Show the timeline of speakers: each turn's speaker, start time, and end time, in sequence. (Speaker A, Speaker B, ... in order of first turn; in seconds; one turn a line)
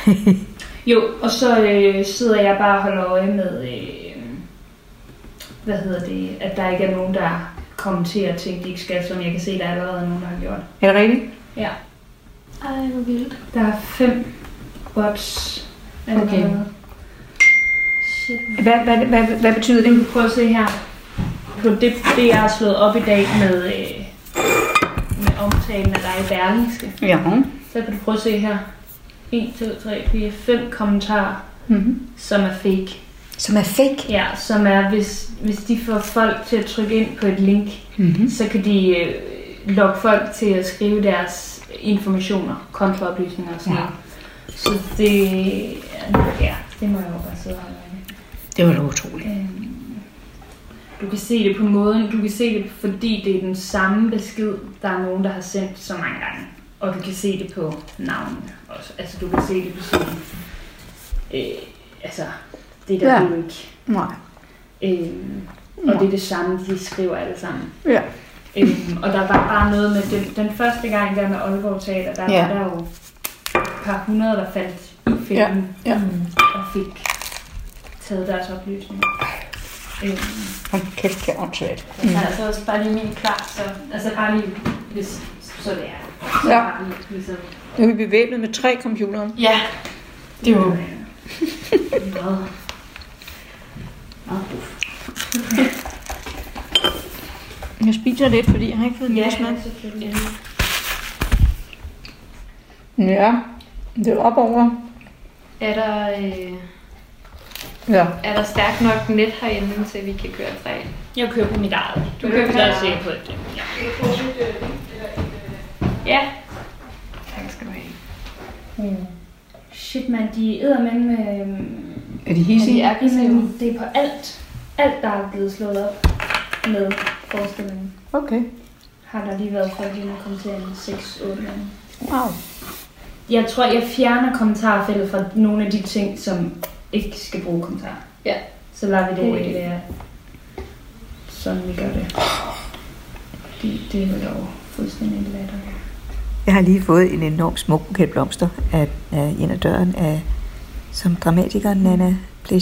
Speaker A: 0.8-4.5
Speaker A: 5.6-10.8
Speaker B: 10.8-11.3
Speaker A: 11.5-11.8
Speaker C: 12.7-13.1
Speaker A: 13.5-16.8
Speaker C: 16.1-16.6
Speaker A: 18.0-18.8
Speaker B: 18.6-20.1
Speaker A: 19.8-24.2
Speaker A: 25.1-33.1
Speaker B: 27.0-27.5
Speaker B: 31.7-32.0
Speaker B: 33.4-34.0
Speaker A: 34.0-48.2
Speaker B: 38.0-38.3
Speaker B: 43.6-43.9
Speaker B: 48.5-49.2
Speaker A: 49.2-50.2
Speaker A: 51.0-63.9
Speaker B: 63.0-64.2
Speaker A: 64.7-80.6
Speaker B: 67.8-68.4
Speaker B: 72.2-72.5
Speaker B: 75.3-76.3
Speaker B: 80.7-82.2
Speaker A: 82.0-87.7
Speaker B: 86.4-86.7
Speaker B: 87.7-89.4
Speaker C: 89.4-89.7
Speaker A: 89.5-89.8
Speaker A: 90.4-91.2
Speaker B: 90.4-91.5
Speaker A: 92.0-92.9
Speaker A: 94.3-94.7
Speaker B: 97.8-99.6
Speaker A: 99.1-100.4
Speaker B: 103.0-104.9
Speaker A: 105.8-106.6
Speaker B: 107.9-108.2
Speaker C: 108.2-110.9
Speaker A: 111.1-114.1
Speaker B: 112.2-112.8
Speaker C: 112.4-112.9
Speaker A: 116.0-116.4
Speaker C: 117.3-117.9
Speaker A: 118.8-128.0
Speaker B: 122.3-122.9
Speaker C: 122.6-123.5
Speaker B: 128.1-128.5
Speaker A: 129.0-131.8
Speaker B: 132.0-132.4
Speaker A: 133.2-139.9
Speaker B: 139.2-139.5
Speaker A: 141.3-142.3
Speaker A: 143.6-145.9